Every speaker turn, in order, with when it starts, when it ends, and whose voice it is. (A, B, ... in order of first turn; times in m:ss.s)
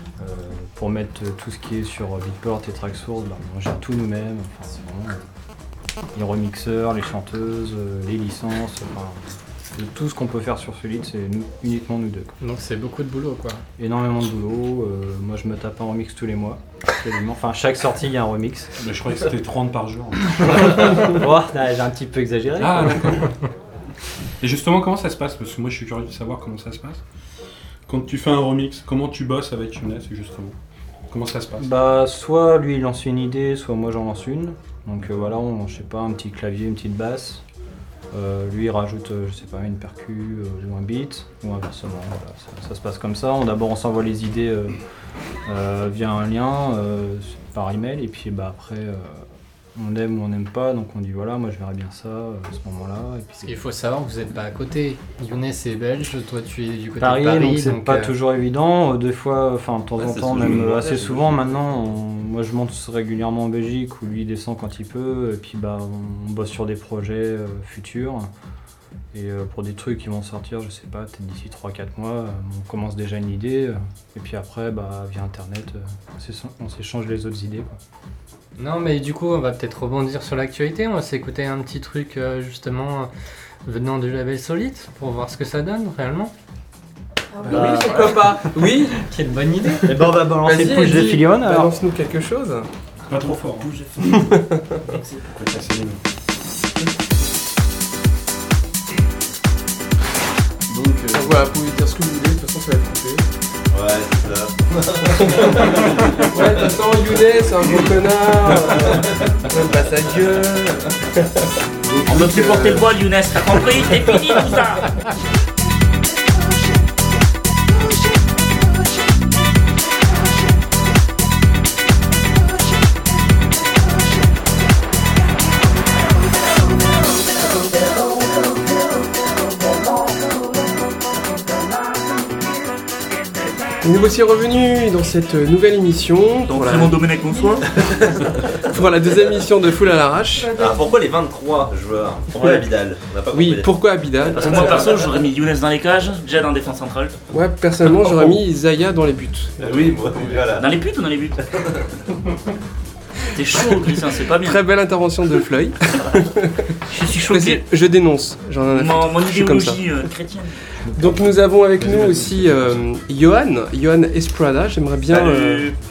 0:00.2-0:05.2 A
0:06.1-0:09.2 A
0:09.7-0:12.3 A
0:12.4-0:13.6 B
0:13.8-0:18.7 A
0:18.8-0:21.1 C
0:20.6-0:23.2 A
0:22.6-0:23.3 C
0:24.4-0:27.0 C
0:27.9-0:30.5 C
0:31.1-0:31.7 C
0:31.6-0:37.4 A
0:38.1-0:44.8 A
0:45.4-0:53.6 A
0:53.4-0:58.1 B
0:57.0-1:08.3 A
1:00.0-1:01.5 D
1:00.0-1:00.7 E
1:09.1-1:17.8 A
1:18.6-1:23.1 B
1:23.6-1:26.3 B
1:27.4-1:29.1 F
1:27.5-1:28.2 A
1:27.5-1:28.2 B
1:28.9-1:29.9 B
1:29.8-1:31.8 A
1:29.9-1:32.7 F
1:33.1-1:33.7 C
1:33.9-1:34.9 F
1:35.2-1:36.0 C
1:40.7-1:41.5 D
1:41.1-1:43.2 F
1:43.7-1:46.6 E
1:45.2-1:51.4 F
1:52.0-1:52.9 F
1:52.0-1:54.8 G
2:13.8-2:17.0 F
2:16.5-2:17.7 G
2:18.5-2:20.6 F
2:20.5-2:24.9 E
2:22.3-2:22.6 G
2:23.3-2:25.1 F
2:24.3-2:27.1 G
2:27.3-2:29.9 F
2:29.6-2:30.7 E
2:30.6-2:31.4 G
2:31.6-2:31.8 E
2:33.3-2:34.6 G
2:34.4-2:39.8 F
2:36.9-2:37.6 G
2:38.7-2:40.6 G
2:40.9-2:45.7 F
2:41.9-2:42.2 A
2:45.1-2:45.7 E